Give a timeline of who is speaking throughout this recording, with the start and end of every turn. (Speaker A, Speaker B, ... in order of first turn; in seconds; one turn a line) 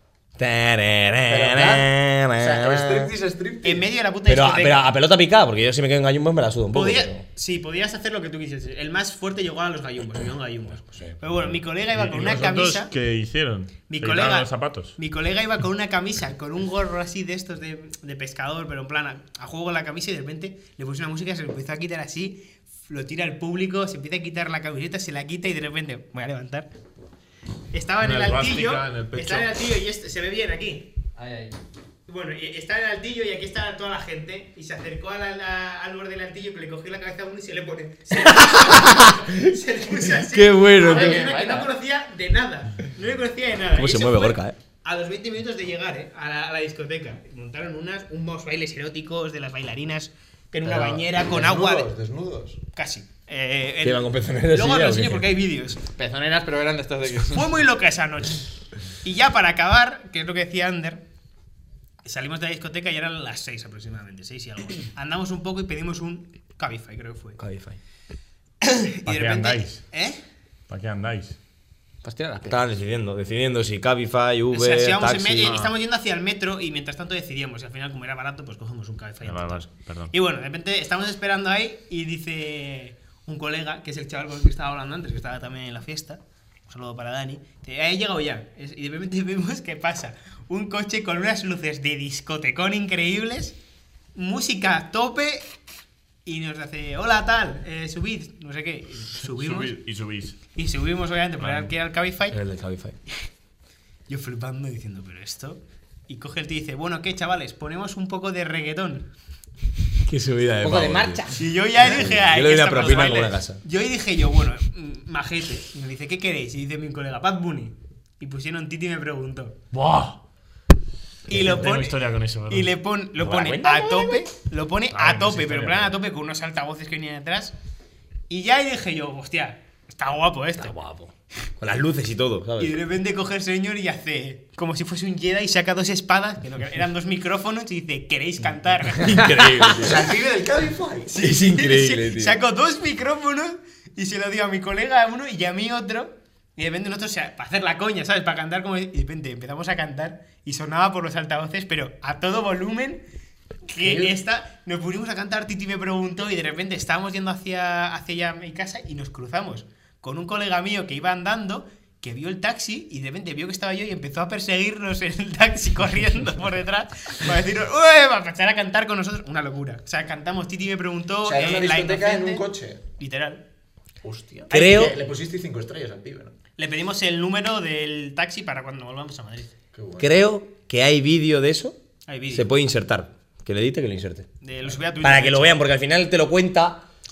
Speaker A: 0.4-3.1
Speaker B: 1.3-3.9
Speaker C: 3.6-4.9
Speaker A: 4.3-7.2
Speaker C: 6.7-12.9
Speaker D: 11.9-14.9
Speaker C: 13.9-26.7
Speaker C: 27.7-30.9
Speaker D: 28.0-29.5
Speaker E: 31.2-31.6
Speaker C: 32.1-51.9
Speaker A: 40.3-41.2
Speaker E: 40.4-41.7
Speaker A: 43.8-44.6
Speaker B: 50.6-52.6
Speaker C: 52.8-55.8
Speaker A: 53.8-55.2
Speaker E: 56.0-57.5
Speaker C: 57.2-58.5
Speaker C: 59.0-61.0
Speaker C: 62.0-67.4
Speaker A: 67.4-67.8
Speaker C: 68.6-70.2
Speaker D: 69.1-69.8
Speaker D: 70.7-71.4
Speaker E: 72.0-72.6
Speaker A: 72.5-75.5
Speaker C: 74.5-93.5
Speaker D: 75.4-75.7
Speaker D: 79.2-80.1
Speaker C: 94.2-95.5
Speaker C: 96.2-99.8
Speaker D: 99.3-100.4
Speaker C: 100.5-102.4
Speaker D: 101.4-101.7
Speaker A: 102.3-103.0
Speaker C: 104.1-109.1
Speaker A: 110.0-111.2
Speaker E: 110.6-111.4
Speaker C: 111.3-119.5
Speaker A: 111.8-113.6
Speaker D: 119.7-120.2
Speaker C: 121.3-127.5
Speaker A: 121.3-121.6
Speaker D: 121.3-122.7
Speaker A: 123.2-124.2
Speaker D: 124.9-126.0
Speaker C: 128.3-130.7
Speaker A: 130.6-132.8
Speaker C: 132.6-139.4
Speaker D: 139.1-139.9
Speaker A: 139.2-139.9
Speaker B: 139.8-141.2
Speaker C: 141.1-153.0
Speaker A: 141.2-142.4
Speaker C: 153.7-172.5
Speaker B: 153.8-154.1
Speaker B: 171.2-172.8
Speaker C: 173.0-173.4
Speaker B: 174.0-176.3
Speaker A: 174.5-175.0
Speaker C: 176.6-179.5
Speaker B: 179.7-180.1
Speaker A: 180.0-181.8
Speaker C: 182.1-182.5
Speaker A: 182.3-184.3
Speaker C: 184.4-185.6
Speaker A: 185.0-186.8